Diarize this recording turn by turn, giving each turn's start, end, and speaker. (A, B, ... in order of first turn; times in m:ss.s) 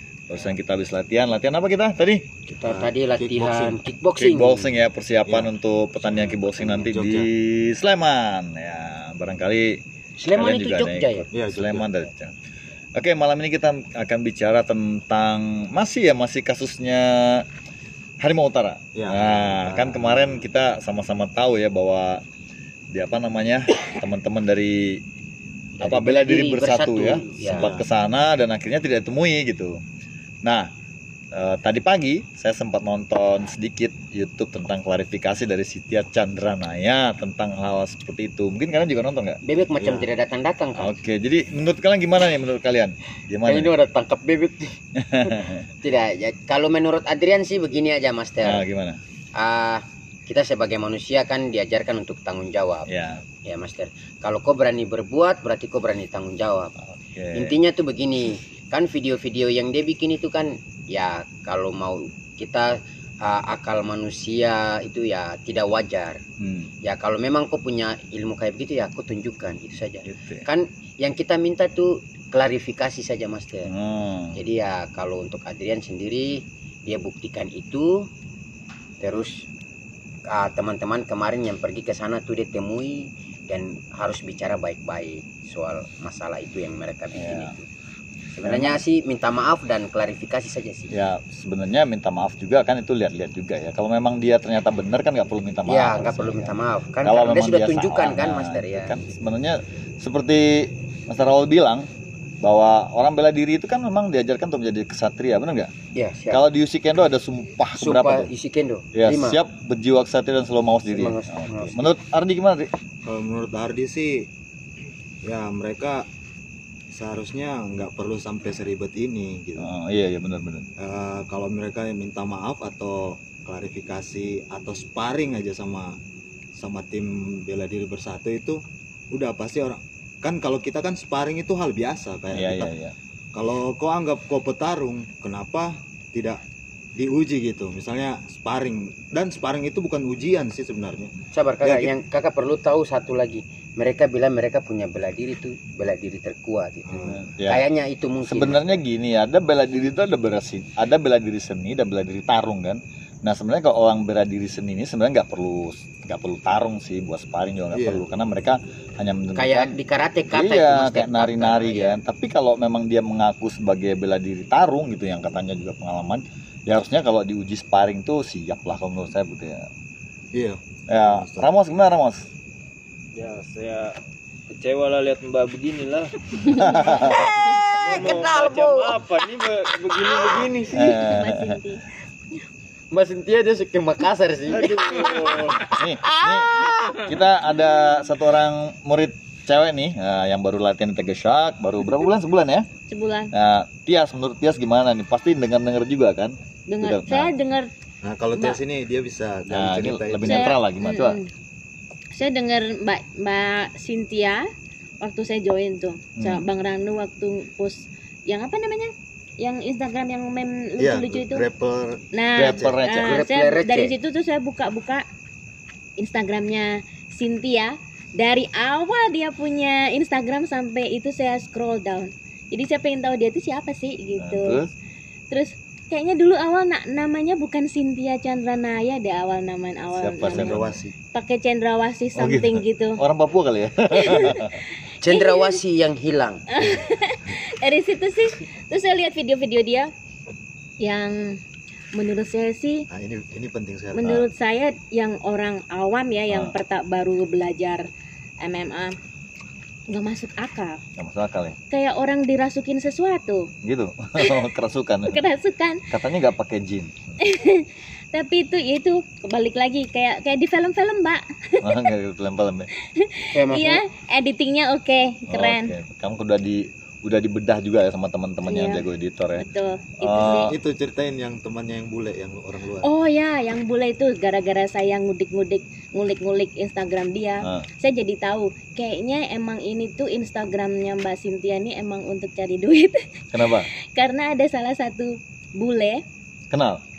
0:00.3-0:02.3 A
0:02.5-0:03.8 B
0:02.6-0:04.7 C
0:04.2-0:09.8 A
0:05.2-0:05.5 B
0:06.1-0:07.3 B
0:10.2-0:11.3 C
0:10.4-0:12.3 A
0:11.3-0:11.9 B
0:13.0-0:17.5 A
0:18.2-0:22.2 A
0:19.0-0:20.1 B
0:22.9-0:25.0 A
0:25.8-0:27.7 C
0:25.8-0:29.7 A
0:27.5-0:27.9 B
0:31.3-0:39.4 A
0:39.4-0:41.0 C
0:39.8-0:40.1 B
0:40.8-0:43.7 A
0:43.4-0:48.7 C
0:45.0-0:45.7 A
0:48.4-0:49.0 A
0:49.4-0:52.9 C
0:52.9-0:53.2 A
0:53.4-0:56.7 C
0:56.9-0:57.6 A
0:57.4-1:06.2 C
1:06.4-1:06.7 A
1:06.8-1:13.7 C
1:10.0-1:10.5 A
1:13.7-1:14.4 A
1:14.4-1:18.1 C
1:19.0-1:19.5 C
1:20.3-1:27.7 C
1:27.2-1:27.5 A
1:28.4-1:30.9 C
1:28.4-1:28.8 A
1:30.9-1:41.9 A
1:35.7-1:38.9 C
1:42.4-1:45.7 A
1:45.9-1:46.4 C
1:46.3-1:48.3 A
1:47.8-1:49.4 C
1:49.0-1:52.7 A
1:50.9-1:51.9 C
1:53.1-1:54.3 B
1:55.2-1:56.1 B
1:56.9-1:59.7 B
1:59.6-2:00.7 A
2:00.8-2:06.0 B
2:06.6-2:08.6 B
2:09.1-2:12.7 B
2:12.3-2:13.0 A
2:13.3-2:16.4 B
2:17.0-2:21.9 B
2:21.3-2:28.7 C
2:26.9-2:27.3 B
2:27.1-2:27.6 A
2:28.2-2:39.8 A
2:37.7-2:38.0 B
2:39.4-2:42.0 C
2:40.3-2:49.7 A
2:50.3-2:51.5 B
2:50.9-2:52.3 A
2:53.2-2:54.0 D
2:54.5-2:56.1 D
2:56.6-2:57.3 A
2:57.0-3:00.7 C
2:57.8-3:00.8 D
3:00.7-3:01.6 A
3:00.9-3:01.8 E
3:02.9-3:07.0 C
3:04.7-3:05.5 D
3:05.7-3:12.7 A
3:12.9-3:13.3 E
3:13.3-3:17.3 A
3:16.7-3:17.7 E
3:18.0-3:20.5 B
3:19.5-3:21.2 A
3:20.2-3:21.3 E
3:22.1-3:24.5 E
3:25.0-3:31.5 E
3:26.2-3:26.5 A
3:30.8-3:32.8 B
3:32.1-3:35.0 E
3:32.4-3:33.2 A
3:33.0-3:34.0 C
3:36.0-3:44.6 E
3:44.2-3:44.7 A
3:45.3-3:50.6 E
3:49.9-3:50.8 A
3:50.2-3:50.9 B
3:51.1-3:53.0 E
3:52.2-3:54.5 A
3:53.9-3:55.5 E
3:55.0-3:56.4 C
3:56.5-3:59.9 E
4:00.8-4:01.4 E
4:02.0-4:02.9 E
4:02.9-4:04.3 B
4:03.9-4:07.8 E
4:06.3-4:06.6 A
4:08.4-4:09.0 E
4:09.9-4:10.8 E
4:11.0-4:11.6 A
4:11.7-4:13.5 E
4:13.6-4:15.2 A
4:14.2-4:14.5 E
4:15.1-4:15.8 E
4:15.9-4:17.2 A
4:17.2-4:21.9 E
4:21.6-4:22.7 A
4:22.8-4:25.8 E
4:23.3-4:23.8 C
4:25.3-4:29.4 A
4:28.4-4:28.9 E
4:29.4-4:30.6 E
4:30.0-4:30.6 A
4:30.2-4:32.9 B
4:32.8-4:46.0 E
4:43.3-4:43.7 A
4:46.5-4:46.8 A